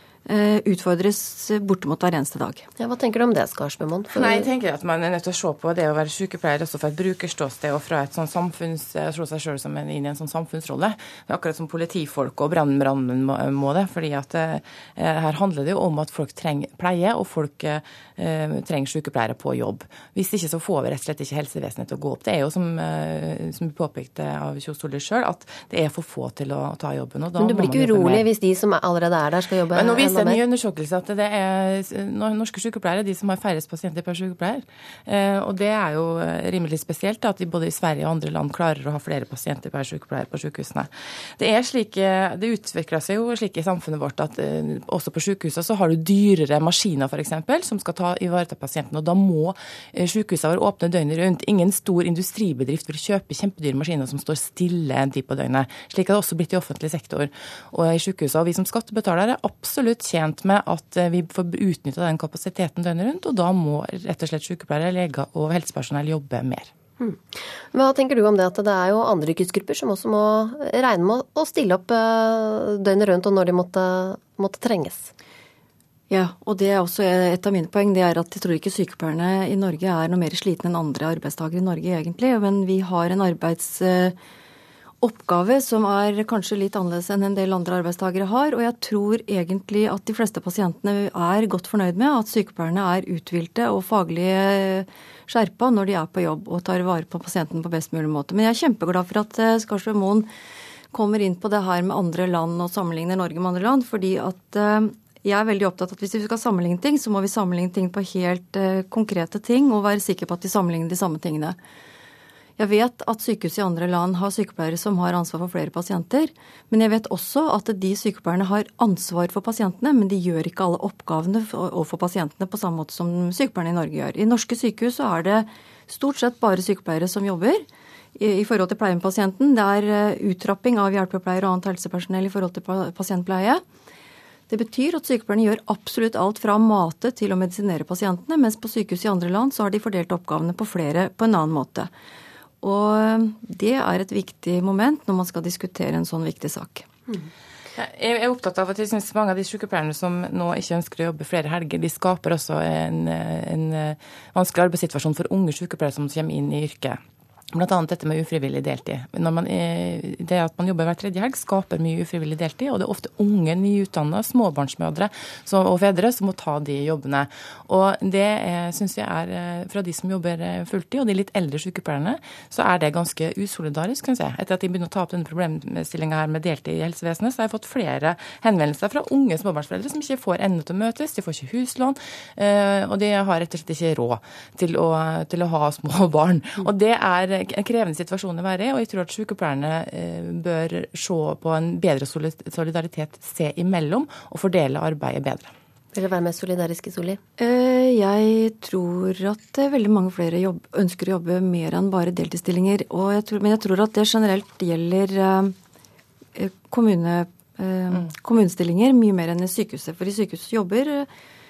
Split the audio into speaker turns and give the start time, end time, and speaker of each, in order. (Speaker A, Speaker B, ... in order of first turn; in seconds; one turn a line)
Speaker A: 0.2-2.6
Speaker B: 2.8-4.5
Speaker C: 4.1-28.2
Speaker B: 27.4-30.4
Speaker C: 29.7-66.7
Speaker B: 67.0-75.1
Speaker A: 76.1-84.2
Speaker A: 85.0-100.3
Speaker A: 100.9-111.6
Speaker A: 112.6-133.6
Speaker A: 134.5-141.9
Speaker A: 142.6-146.9
Speaker C: 147.8-157.0
Speaker C: 157.5-195.5
Speaker B: 195.9-197.2
Speaker A: 197.4-205.6
Speaker A: 206.3-211.1